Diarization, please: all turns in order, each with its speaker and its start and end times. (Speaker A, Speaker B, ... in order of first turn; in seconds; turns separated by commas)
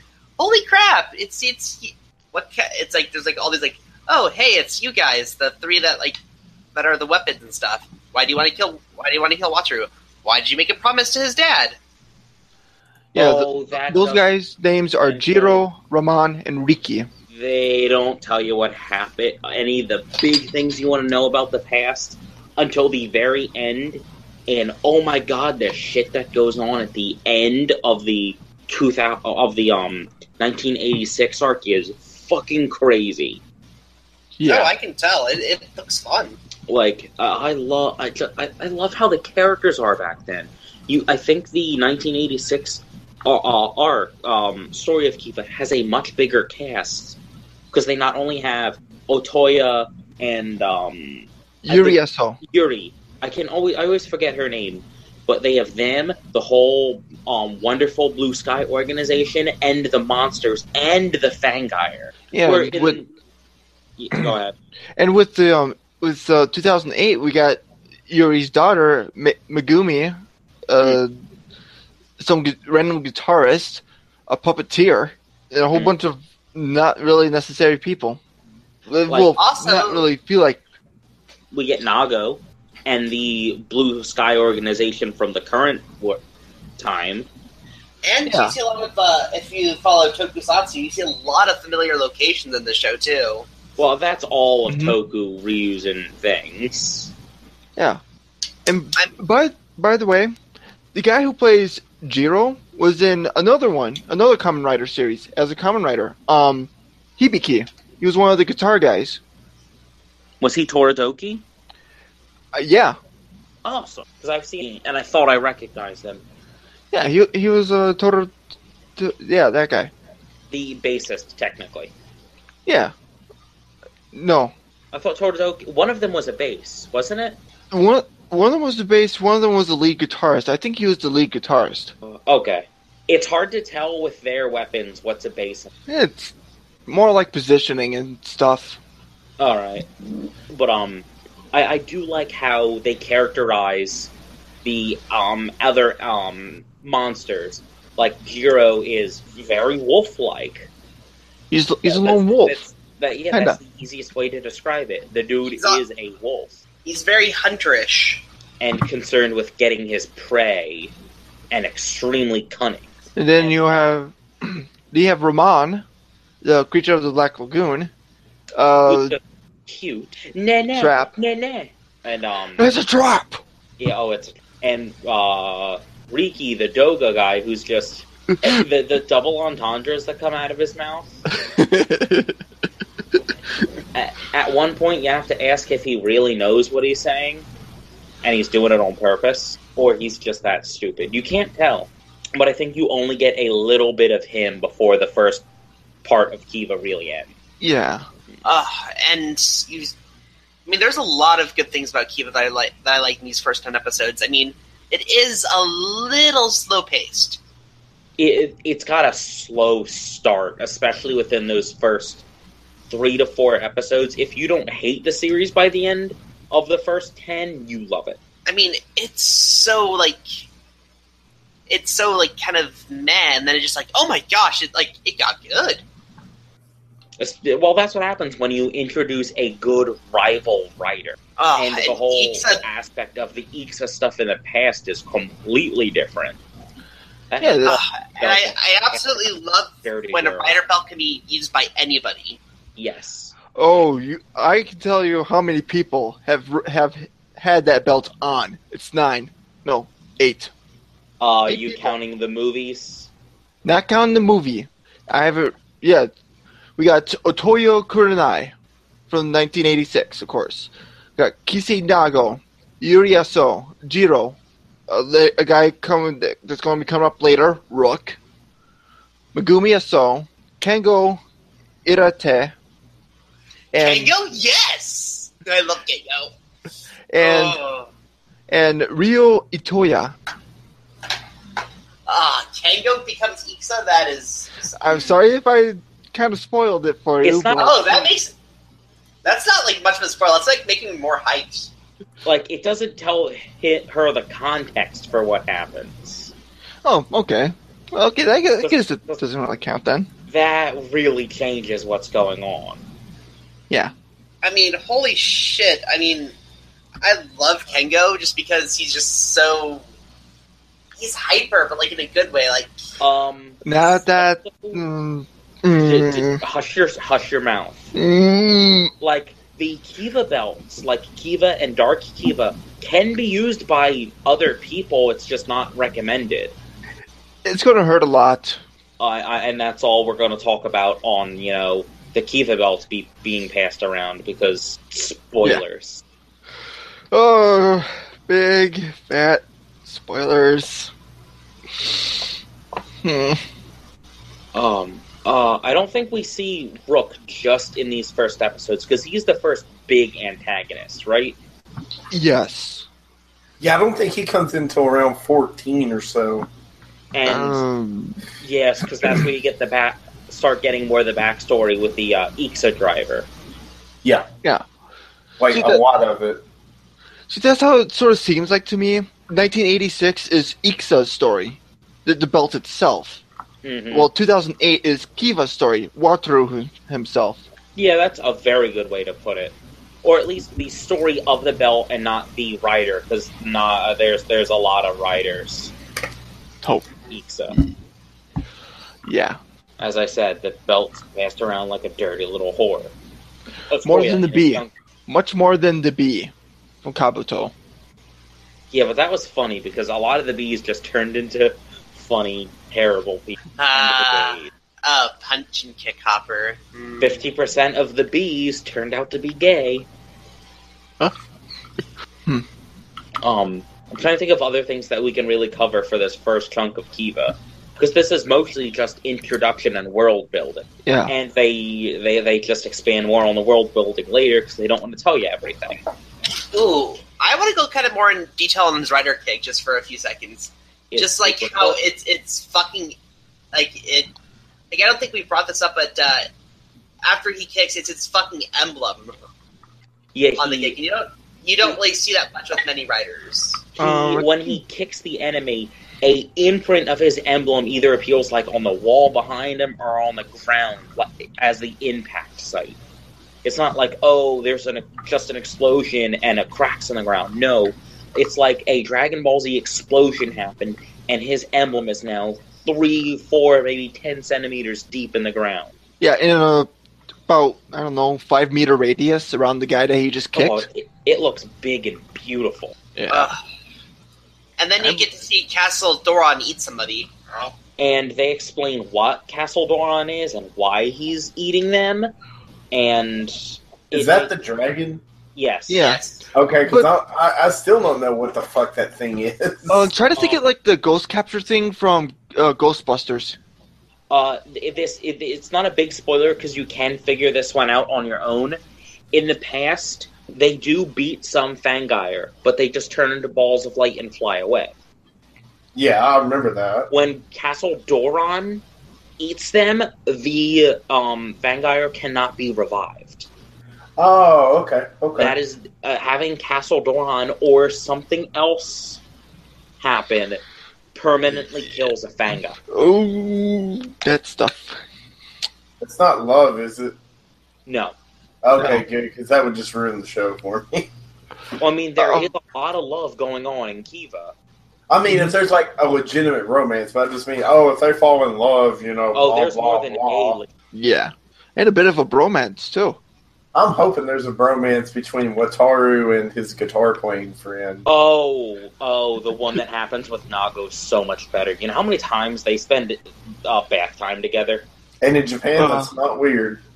Speaker A: 0.4-6.2, Speaker A: 6.7-11.8, Speaker B: 13.1-17.1, Speaker C: 13.2-14.2, Speaker C: 15.0-15.6, Speaker C: 17.3-33.4, Speaker B: 34.4-34.7, Speaker A: 34.4-36.4, Speaker C: 36.7-47.2, Speaker C: 47.7-63.1, Speaker B: 51.6-52.4, Speaker B: 62.3-63.0, Speaker C: 64.0-64.5, Speaker B: 65.0-71.1, Speaker B: 72.2-78.2, Speaker B: 78.9-80.6, Speaker C: 79.1-79.3, Speaker A: 79.3-80.0, Speaker C: 81.5-86.2, Speaker C: 86.8-87.3, Speaker A: 88.0-93.5, Speaker B: 88.2-88.5, Speaker C: 93.8-97.1, Speaker B: 94.7-94.9, Speaker B: 97.8-98.0, Speaker B: 98.7-100.3, Speaker B: 100.9-109.2, Speaker C: 110.4-111.4, Speaker B: 112.5-113.0, Speaker C: 113.6-116.2, Speaker B: 116.9-118.3, Speaker B: 119.0-119.9, Speaker C: 120.5-121.9, Speaker B: 122.7-122.9, Speaker B: 124.1-124.5, Speaker C: 124.9-127.4, Speaker B: 127.7-131.9, Speaker C: 132.0-135.7, Speaker B: 135.9-136.3, Speaker B: 136.8-138.8, Speaker C: 139.4-139.9, Speaker C: 140.5-144.1, Speaker C: 144.6-150.7, Speaker B: 151.5-152.6, Speaker C: 151.8-156.6, Speaker B: 153.3-153.6, Speaker A: 156.8-158.2, Speaker C: 158.6-160.9, Speaker C: 161.5-163.8, Speaker B: 163.2-165.8, Speaker B: 166.4-167.9, Speaker B: 168.5-169.2, Speaker C: 168.9-172.7, Speaker B: 170.7-171.1, Speaker B: 172.6-173.4, Speaker C: 173.8-181.2, Speaker B: 181.3-182.4, Speaker C: 183.9-187.5, Speaker C: 188.2-195.4, Speaker C: 196.0-197.3, Speaker B: 197.6-198.0, Speaker A: 198.4-199.9, Speaker A: 200.7-207.4, Speaker C: 208.2-212.2, Speaker C: 212.9-218.2, Speaker A: 218.4-220.4, Speaker A: 221.7-225.8, Speaker C: 227.2-236.4, Speaker A: 231.4-232.6, Speaker C: 237.3-239.3, Speaker B: 237.4-237.8, Speaker A: 237.7-242.4, Speaker C: 239.8-240.6, Speaker C: 242.8-243.3, Speaker B: 243.5-250.5, Speaker C: 251.2-253.1, Speaker B: 251.5-251.9, Speaker B: 253.6-256.1, Speaker B: 256.8-258.5, Speaker B: 259.1-268.2, Speaker B: 269.3-271.2, Speaker B: 271.8-272.5, Speaker B: 273.7-274.1, Speaker A: 273.8-276.3, Speaker B: 277.1-277.6, Speaker A: 277.2-277.9, Speaker B: 278.5-280.1, Speaker A: 282.1-285.1, Speaker B: 284.8-288.1, Speaker C: 287.2-287.7, Speaker A: 287.6-288.3, Speaker A: 289.2-291.7, Speaker C: 292.2-296.3, Speaker B: 296.8-300.1, Speaker C: 298.6-299.2, Speaker C: 300.3-302.8, Speaker A: 304.4-306.3, Speaker A: 307.0-309.8, Speaker A: 310.9-312.7, Speaker C: 313.0-314.8, Speaker B: 313.6-316.4, Speaker C: 315.8-317.9, Speaker B: 317.9-318.9, Speaker C: 319.0-326.5, Speaker B: 327.4-328.6, Speaker C: 329.0-336.0, Speaker B: 337.1-340.9, Speaker B: 343.0-343.4, Speaker C: 344.5-351.4, Speaker B: 352.1-352.9, Speaker D: 353.6-356.5, Speaker C: 357.1-357.6, Speaker B: 357.2-358.2, Speaker C: 358.4-363.3, Speaker D: 365.4-366.4, Speaker B: 365.5-365.8, Speaker B: 367.3-373.2, Speaker C: 373.6-374.1, Speaker B: 373.9-377.4, Speaker C: 377.8-385.7, Speaker B: 386.6-386.9, Speaker C: 387.1-387.6, Speaker B: 389.0-389.4, Speaker C: 389.8-392.9, Speaker C: 393.7-394.7, Speaker B: 393.8-396.3, Speaker B: 396.8-397.5, Speaker C: 398.7-404.5, Speaker A: 403.6-407.0, Speaker C: 407.0-409.9, Speaker C: 413.2-425.8, Speaker B: 420.8-421.1, Speaker A: 426.5-432.9, Speaker C: 430.9-431.8, Speaker A: 433.5-434.1, Speaker A: 434.7-436.3, Speaker A: 437.0-439.1, Speaker C: 440.1-440.8, Speaker A: 440.4-443.6, Speaker C: 443.7-452.8, Speaker B: 443.8-444.6, Speaker C: 453.4-465.7, Speaker B: 466.0-466.7, Speaker B: 467.3-470.6, Speaker C: 470.3-472.7, Speaker B: 472.9-473.3, Speaker A: 473.1-473.4, Speaker A: 474.6-477.5, Speaker B: 474.8-475.0, Speaker C: 477.8-482.1, Speaker C: 482.7-484.3, Speaker D: 483.9-485.0, Speaker C: 485.3-486.0, Speaker B: 485.7-486.0, Speaker A: 485.8-486.2, Speaker D: 486.3-489.9, Speaker B: 489.7-493.4, Speaker C: 490.1-490.4, Speaker C: 494.1-498.6, Speaker C: 499.1-504.7, Speaker D: 505.7-506.9, Speaker C: 506.9-508.6, Speaker C: 509.2-513.3, Speaker D: 514.0-515.3, Speaker C: 515.1-519.0, Speaker C: 519.8-520.4, Speaker C: 520.9-522.6, Speaker B: 522.7-524.8, Speaker D: 525.8-526.9, Speaker C: 527.6-527.9, Speaker D: 528.4-530.9, Speaker B: 528.5-528.8, Speaker C: 531.6-534.3, Speaker D: 532.0-532.3, Speaker D: 534.9-540.4, Speaker B: 535.1-535.3, Speaker C: 539.1-540.5, Speaker B: 540.7-543.0, Speaker D: 543.5-547.9, Speaker C: 547.9-554.6, Speaker D: 555.0-556.6, Speaker B: 555.6-555.9